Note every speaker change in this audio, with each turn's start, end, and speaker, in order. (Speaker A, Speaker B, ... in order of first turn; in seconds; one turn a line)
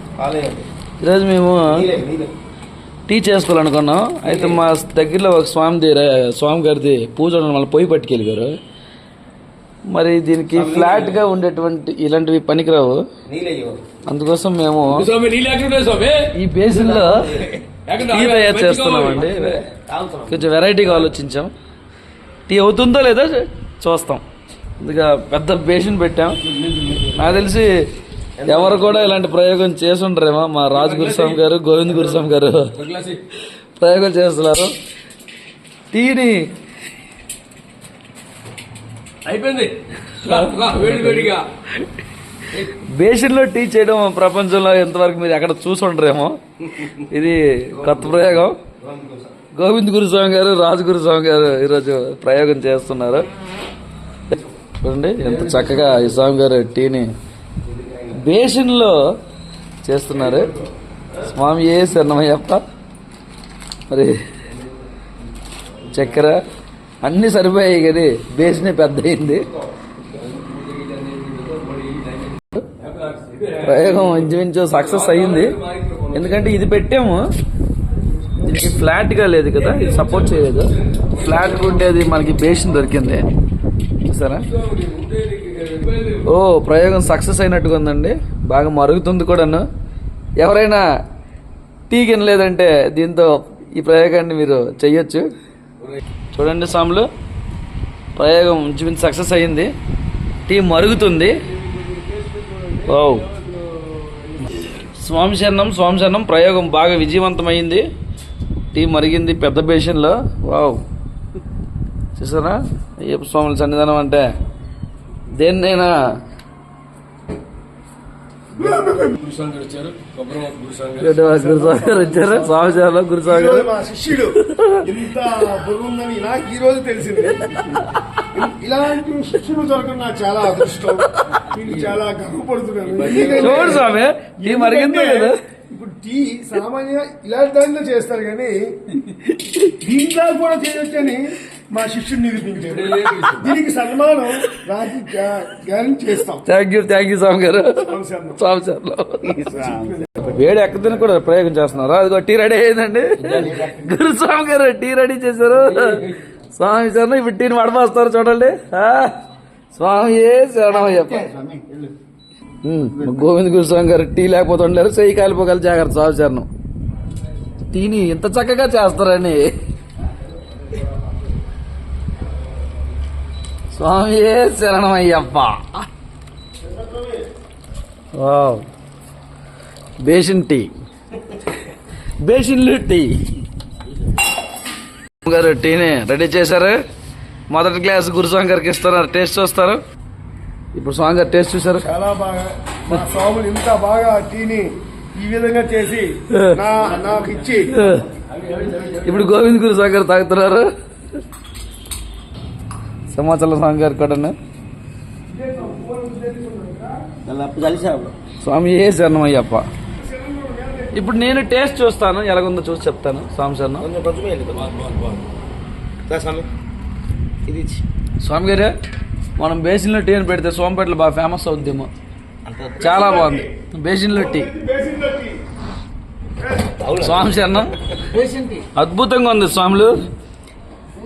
Speaker A: 0.2-0.7
Speaker B: 1.0-1.8
Speaker A: 1.7-2.3
Speaker B: 3.1-8.6
Speaker A: 4.2-4.6
Speaker B: 9.9-13.0
Speaker A: 10.5-11.2
Speaker A: 13.3-13.8
Speaker B: 14.1-15.1
Speaker C: 14.9-16.3
Speaker B: 16.3-17.4
Speaker A: 16.7-17.7
Speaker C: 17.7-19.7
Speaker B: 18.0-19.6
Speaker A: 19.2-20.4
Speaker B: 20.3-21.5
Speaker B: 22.5-24.2
Speaker B: 24.8-26.4
Speaker C: 26.4-27.4
Speaker B: 27.1-27.7
Speaker A: 28.4-29.2
Speaker B: 28.5-32.8
Speaker C: 30.7-31.4
Speaker C: 32.7-33.2
Speaker B: 33.8-34.7
Speaker B: 35.9-36.5
Speaker C: 39.2-41.5
Speaker B: 40.2-42.0
Speaker B: 42.6-46.4
Speaker B: 46.9-48.6
Speaker A: 47.9-48.2
Speaker A: 48.8-49.3
Speaker B: 49.6-53.3
Speaker B: 54.8-57.1
Speaker C: 55.2-56.2
Speaker A: 57.6-58.2
Speaker B: 58.1-59.0
Speaker B: 59.8-60.5
Speaker C: 60.2-60.6
Speaker B: 61.2-62.6
Speaker B: 63.9-64.2
Speaker B: 65.9-66.4
Speaker B: 67.0-69.5
Speaker C: 70.1-76.5
Speaker B: 73.6-75.6
Speaker B: 76.1-77.2
Speaker B: 78.4-83.3
Speaker C: 79.5-81.9
Speaker B: 84.0-84.5
Speaker C: 84.5-86.3
Speaker B: 86.2-89.7
Speaker B: 90.4-90.8
Speaker B: 91.9-95.3
Speaker B: 96.3-97.1
Speaker B: 98.2-99.7
Speaker B: 100.5-101.4
Speaker C: 101.3-104.5
Speaker B: 102.9-103.3
Speaker B: 104.6-107.8
Speaker B: 108.7-110.8
Speaker B: 112.2-114.3
Speaker B: 115.3-115.9
Speaker D: 118.6-119.1
Speaker C: 118.6-121.2
Speaker B: 121.0-123.7
Speaker D: 121.2-138.6
Speaker B: 124.4-124.9
Speaker B: 127.6-128.0
Speaker C: 131.6-132.0
Speaker C: 132.9-133.8
Speaker B: 133.1-135.4
Speaker B: 139.1-139.7
Speaker D: 139.8-146.4
Speaker C: 142.6-143.5
Speaker B: 146.4-149.5
Speaker D: 147.8-148.4
Speaker A: 149.3-150.0
Speaker D: 149.4-150.2
Speaker B: 150.2-159.2
Speaker C: 153.2-153.5
Speaker A: 153.3-153.9
Speaker C: 155.6-156.2
Speaker B: 159.7-161.3
Speaker A: 160.7-161.9
Speaker B: 162.6-166.5
Speaker B: 167.7-169.5
Speaker B: 173.7-175.9
Speaker A: 176.6-177.2
Speaker B: 178.2-178.7
Speaker B: 180.0-180.7
Speaker B: 182.2-183.2
Speaker B: 185.2-186.8
Speaker B: 187.5-189.8
Speaker B: 190.7-191.8
Speaker D: 191.8-197.8
Speaker B: 196.3-196.6
Speaker B: 197.7-198.1
Speaker C: 198.3-199.4
Speaker B: 199.0-200.7
Speaker B: 203.1-204.3
Speaker D: 205.3-207.2
Speaker A: 207.2-208.1
Speaker B: 208.4-209.7
Speaker D: 210.0-211.2
Speaker B: 210.9-213.9
Speaker A: 213.8-214.9
Speaker C: 214.5-215.2
Speaker A: 216.1-216.5
Speaker A: 217.5-217.8
Speaker B: 218.2-218.7
Speaker B: 219.4-221.9
Speaker A: 222.5-222.9
Speaker B: 222.8-224.5
Speaker D: 222.9-223.5
Speaker D: 224.1-225.4
Speaker D: 226.4-226.8
Speaker A: 226.8-227.4
Speaker B: 227.0-227.8
Speaker A: 228.0-228.7
Speaker B: 228.8-230.1